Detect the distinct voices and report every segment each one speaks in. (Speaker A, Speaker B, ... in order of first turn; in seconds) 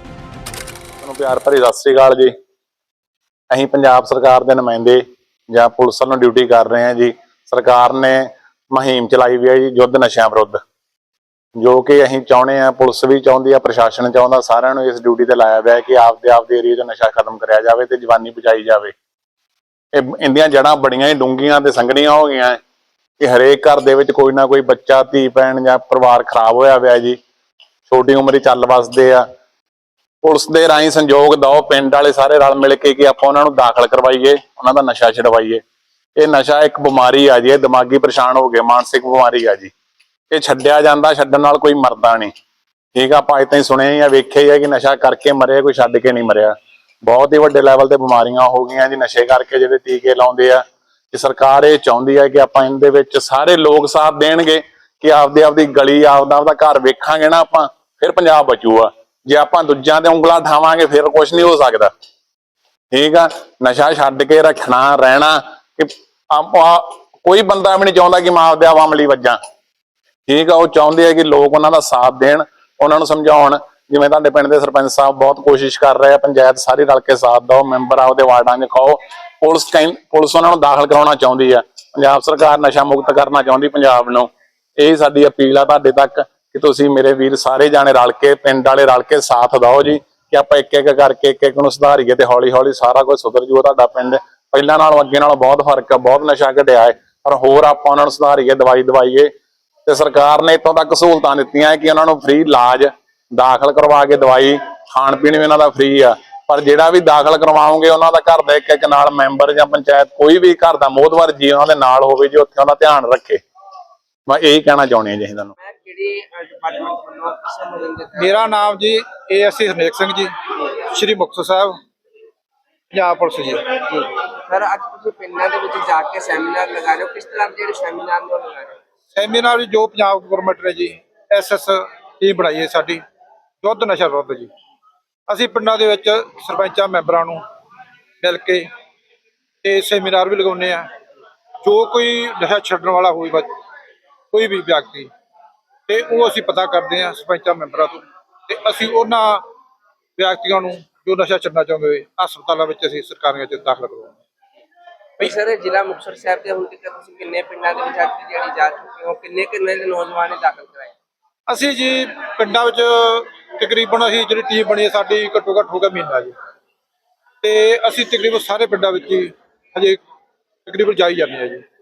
Speaker A: 1.0-2.3, 3.5-10.6, 11.6-18.9, 19.9-22.6, 23.2-27.2, 27.9-29.2, 30.2-35.6, 36.1-39.7, 40.3-42.3, 42.9-61.9, 62.9-69.4, 70.3-99.3, 99.8-113.4, 114.3-115.5
Speaker B: 115.6-118.2, 123.8-128.8, 155.2-160.9
Speaker C: 118.2-120.3, 120.8-121.8, 122.9-123.8, 129.1-133.0, 133.6-134.5, 135.3-137.4, 138.2-138.7, 139.6-140.9, 141.6-143.5, 144.3-145.1, 145.9-149.4, 150.2-154.2, 161.5-166.3, 167.4-170.0, 170.7-171.6